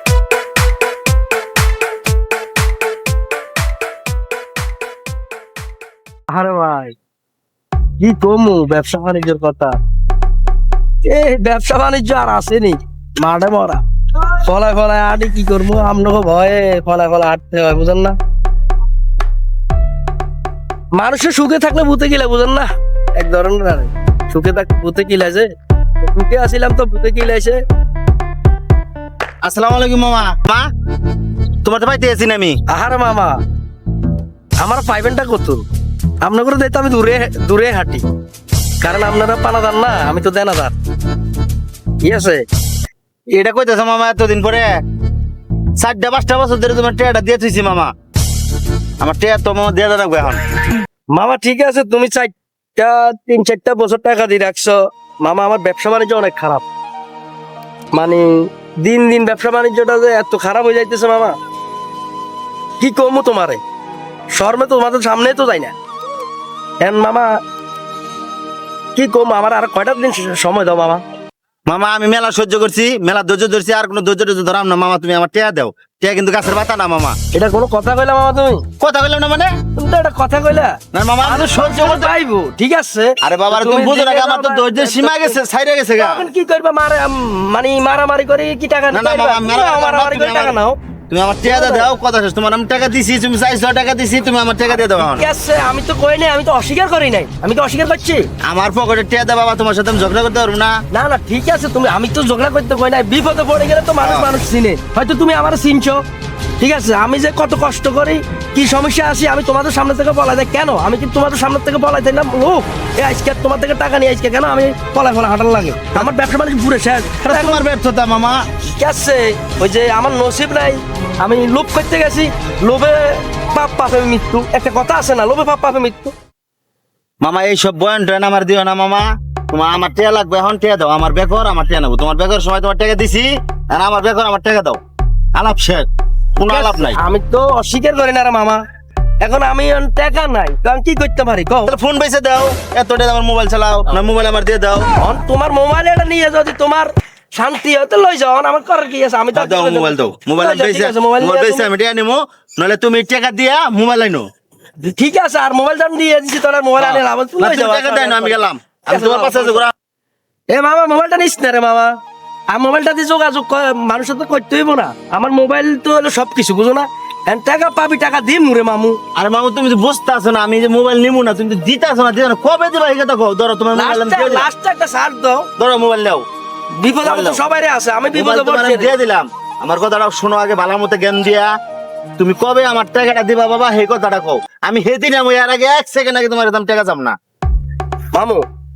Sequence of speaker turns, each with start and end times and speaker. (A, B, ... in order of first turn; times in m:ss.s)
0:06.3-0:07.0 A
0:08.0-0:09.8 A
0:11.0-0:18.2 A
0:21.0-0:25.5 A
0:26.0-0:27.6 A
0:29.4-0:30.7 B
0:31.6-0:32.6 B
0:32.7-0:33.4 A
0:34.6-0:35.6 A
0:36.2-0:38.0 A
0:38.8-0:40.7 A
0:42.0-0:42.4 A
0:43.3-0:44.7 B
0:45.8-0:47.9 B
0:49.0-0:50.4 B
0:51.1-0:56.6 A
0:57.9-1:01.4 A
1:02.8-1:03.6 A
1:04.3-1:05.7 A
1:06.8-1:07.3 A
1:09.0-1:11.0 A
1:11.7-1:17.2 B
1:17.3-1:18.6 A
1:18.8-1:19.5 B
1:19.8-1:25.4 A
1:20.9-1:22.1 B
1:23.2-1:26.3 B
1:26.0-1:30.8 A
1:28.9-1:30.6 B
1:31.1-1:35.3 B
1:31.4-1:31.9 A
1:34.7-1:38.3 A
1:38.5-1:40.8 B
1:40.9-1:46.0 A
1:44.0-1:44.3 B
1:46.6-1:57.6 A
1:57.3-1:58.4 B
1:58.8-2:06.1 A
2:07.2-2:14.8 B
2:15.4-2:15.9 B
2:16.4-2:17.0 B
2:16.5-2:18.6 A
2:19.2-2:21.7 A
2:21.7-2:24.9 B
2:25.0-2:31.7 A
2:29.4-2:34.3 B
2:34.8-2:39.6 A
2:36.8-2:39.7 B
2:40.5-2:42.0 A
2:42.5-2:49.0 A
2:49.2-2:54.5 B
2:53.7-2:55.5 A
2:55.6-2:56.2 B
2:56.8-2:59.0 A
2:57.0-2:57.4 B
2:58.1-3:01.5 B
3:02.2-3:07.2 B
3:08.2-3:08.4 A